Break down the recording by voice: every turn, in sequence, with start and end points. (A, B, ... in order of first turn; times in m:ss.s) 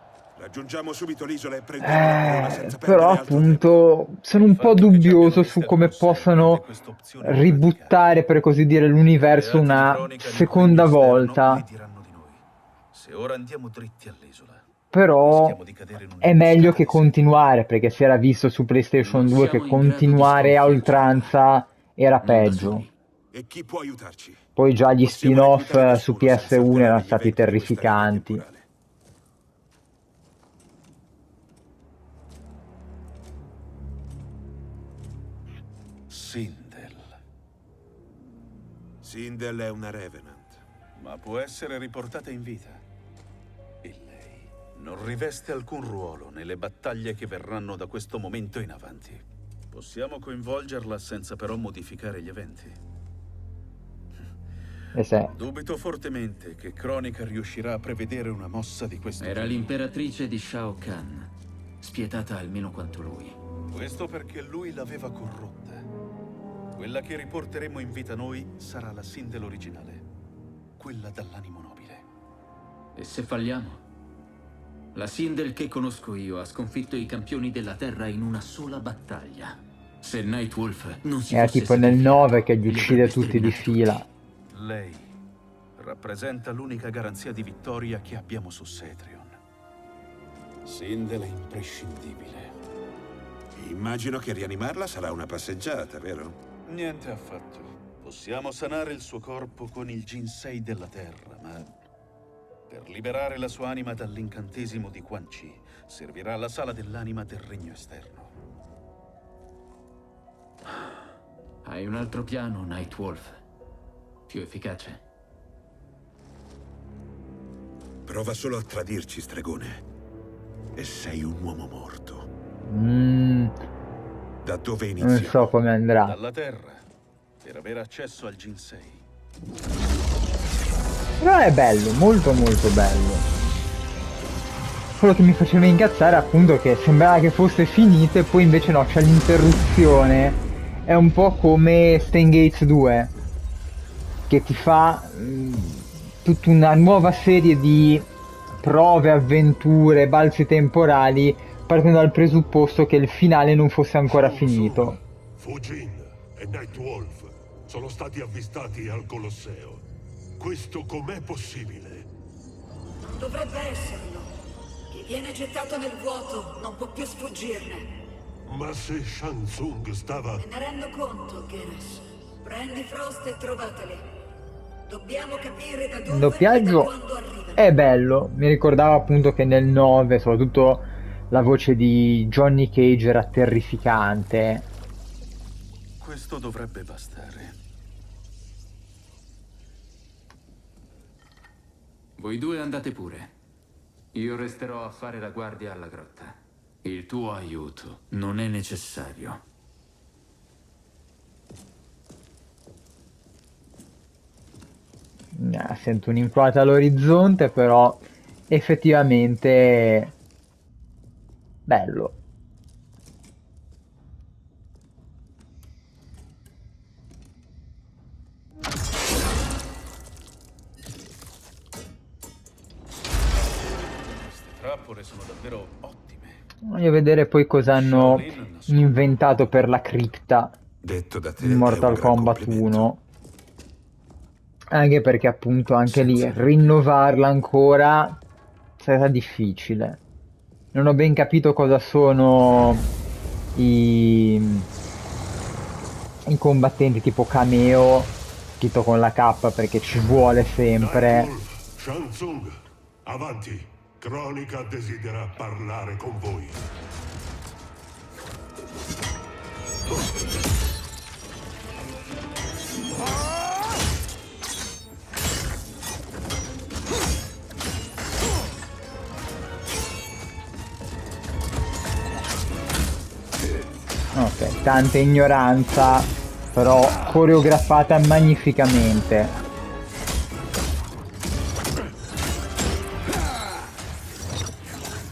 0:00.4-0:03.9 A
0:01.8-0:06.6 B
0:04.3-0:08.1 C
0:07.2-0:11.6 B
0:09.2-0:14.7 C
0:14.9-0:15.6 B
0:15.2-0:17.3 C
0:16.2-0:22.8 B
0:19.0-0:21.4 D
0:22.2-0:22.9 D
0:23.3-0:24.5 A
0:24.6-0:28.4 B
0:25.0-0:28.7 A
0:36.1-0:37.1 C
0:39.0-0:40.6 A
0:41.0-0:42.8 C
0:43.8-0:52.8 C
0:55.0-0:55.3 B
0:55.3-0:59.8 C
0:59.2-1:03.4 D
1:03.7-1:05.9 C
1:06.8-1:10.1 C
1:10.8-1:12.1 C
1:13.0-1:13.8 D
1:14.9-1:24.0 D
1:21.3-1:24.1 B
1:24.5-1:25.1 C
1:25.8-1:29.4 C
1:30.6-1:32.5 C
1:33.6-1:36.4 A
1:36.7-1:41.7 C
1:42.7-1:48.3 C
1:51.6-1:53.4 D
1:54.3-1:55.0 D
1:58.0-1:59.8 A
2:00.8-2:02.3 A
2:02.7-2:03.6 B
2:04.4-2:05.5 A
2:05.0-2:06.2 B
2:06.0-2:06.9 C
2:07.4-2:09.0 C
2:11.2-2:13.3 B
2:15.0-2:23.1 B
2:24.3-2:28.1 B
2:28.6-2:35.0 B
2:34.1-2:39.8 E
2:40.4-2:42.1 E
2:43.2-2:44.3 F
2:44.9-2:47.9 F
2:48.5-2:50.4 E
2:50.4-2:54.0 F
2:54.9-2:57.6 F
2:56.1-2:56.9 B
2:57.6-3:04.7 B
3:06.0-3:07.6 C
3:12.2-3:13.3 D
3:14.1-3:19.4 D
3:25.4-3:30.1 B
3:31.7-3:32.2 B
3:43.4-3:46.4 C
3:46.7-3:50.5 B
3:47.7-3:49.7 C
3:50.8-3:52.9 A
3:51.4-3:53.0 B
3:54.7-3:58.2 B
3:55.8-3:56.8 C
3:58.8-4:00.0 B
4:00.7-4:02.9 B
4:03.6-4:04.7 B
4:06.3-4:11.3 B
4:10.8-4:12.5 E
4:13.0-4:16.7 E
4:34.2-4:39.4 B